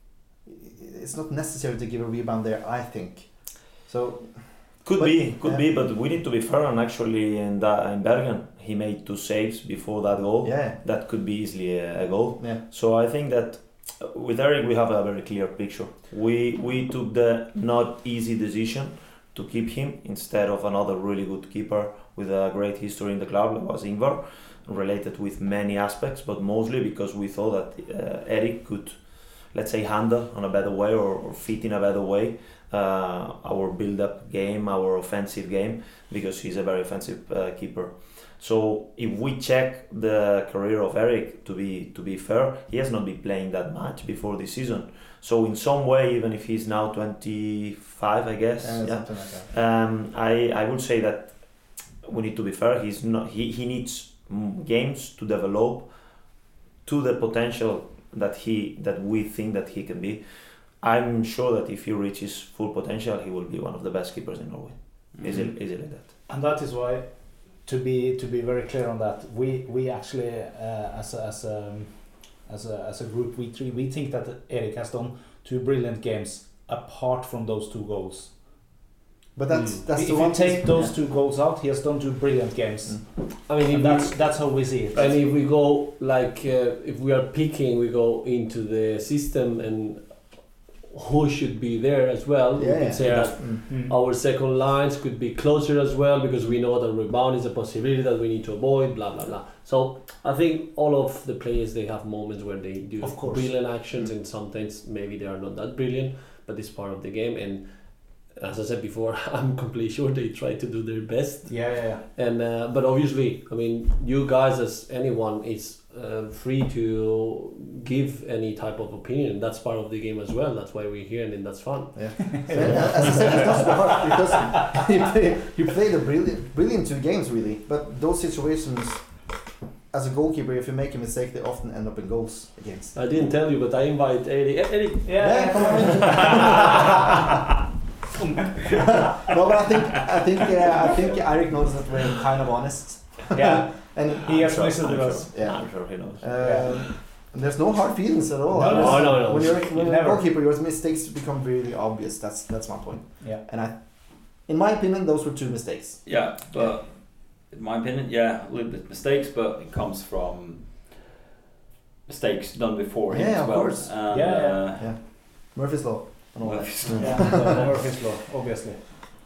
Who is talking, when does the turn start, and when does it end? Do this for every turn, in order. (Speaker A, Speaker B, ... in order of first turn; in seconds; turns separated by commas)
Speaker A: 0.5-5.7, Speaker B: 4.8-66.1, Speaker A: 10.4-10.8, Speaker A: 48.6-49.5, Speaker C: 65.1-65.5, Speaker D: 66.3-78.7, Speaker A: 79.3-81.0, Speaker E: 79.5-79.8, Speaker D: 79.9-85.3, Speaker E: 83.5-123.8, Speaker A: 92.6-93.6, Speaker B: 93.0-93.3, Speaker D: 93.7-94.0, Speaker D: 103.0-103.7, Speaker D: 111.5-112.0, Speaker A: 121.9-133.0, Speaker D: 122.3-123.7, Speaker E: 132.9-135.9, Speaker D: 135.1-136.5, Speaker A: 135.2-136.9, Speaker D: 138.4-139.1, Speaker A: 139.2-156.8, Speaker D: 143.3-145.7, Speaker B: 144.2-146.9, Speaker D: 146.4-146.9, Speaker D: 148.5-150.3, Speaker E: 148.6-149.8, Speaker C: 156.1-161.1, Speaker C: 162.1-165.0, Speaker A: 163.1-167.7, Speaker D: 164.1-164.7, Speaker C: 166.4-167.7, Speaker B: 166.8-167.5, Speaker D: 167.0-169.1